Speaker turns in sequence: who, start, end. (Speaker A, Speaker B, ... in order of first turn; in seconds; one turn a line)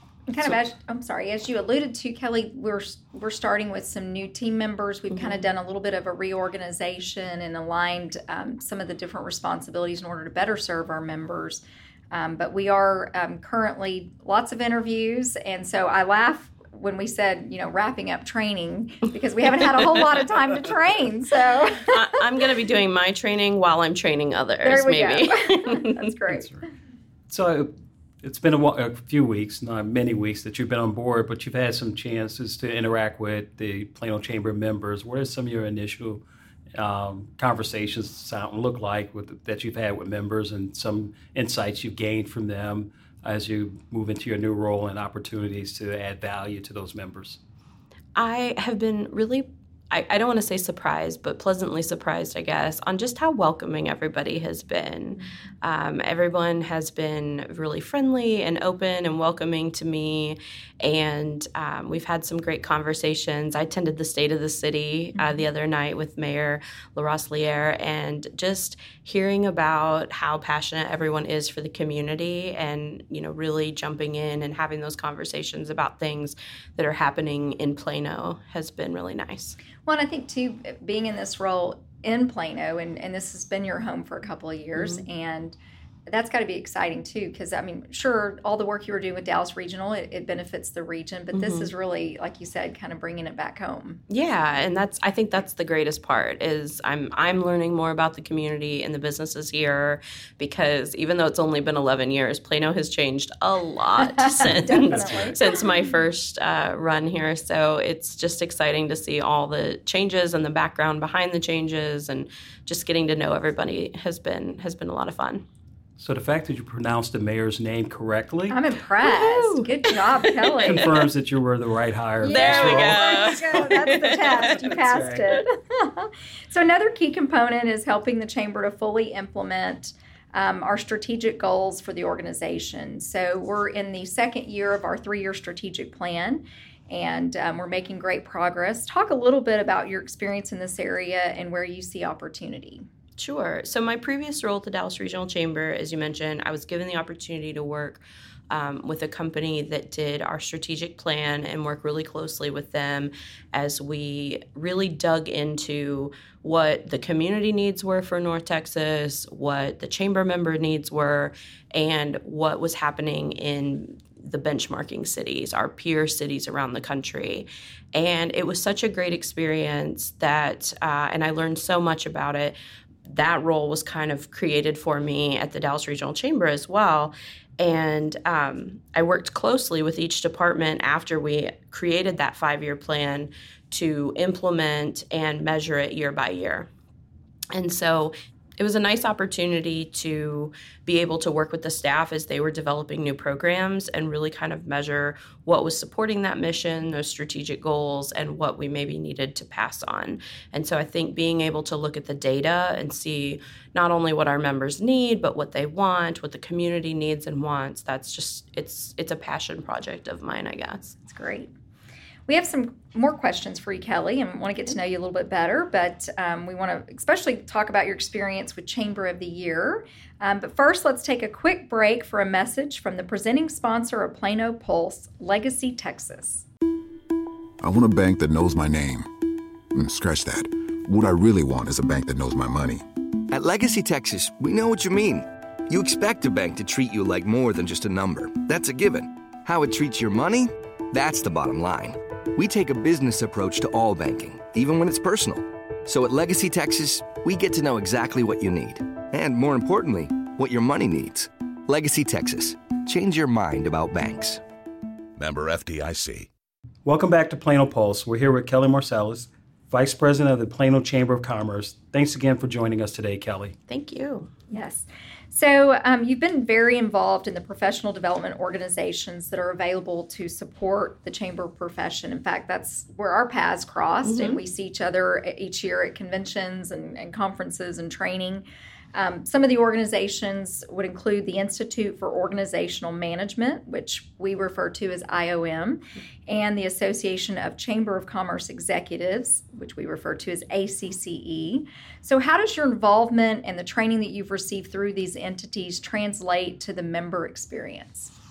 Speaker A: 0.3-22.1
Speaker B: 5.1-5.4
Speaker B: 21.9-26.1
Speaker A: 24.6-26.5
Speaker C: 26.3-26.6
Speaker C: 27.3-27.7
Speaker C: 28.2-36.2
Speaker C: 36.8-47.4
Speaker B: 48.2-79.6
Speaker A: 65.2-65.4
Speaker A: 79.8-85.6
Speaker B: 84.8-85.0
Speaker A: 86.1-94.0
Speaker B: 91.3-91.7
Speaker B: 94.1-115.5
Speaker A: 104.0-105.7
Speaker C: 116.0-118.6
Speaker A: 118.5-120.9
Speaker B: 119.0-120.9
Speaker C: 120.6-123.4
Speaker A: 122.2-142.8
Speaker B: 122.3-124.6
Speaker C: 124.5-125.4
Speaker B: 143.2-186.7
Speaker B: 187.5-211.0
Speaker A: 211.1-211.5
Speaker A: 212.3-226.5
Speaker D: 227.6-229.1
Speaker D: 229.7-232.8
Speaker E: 233.3-254.4
Speaker D: 255.2-256.3
Speaker C: 256.9-263.6
Speaker B: 263.7-264.3
Speaker A: 264.5-298.1
Speaker B: 274.1-274.4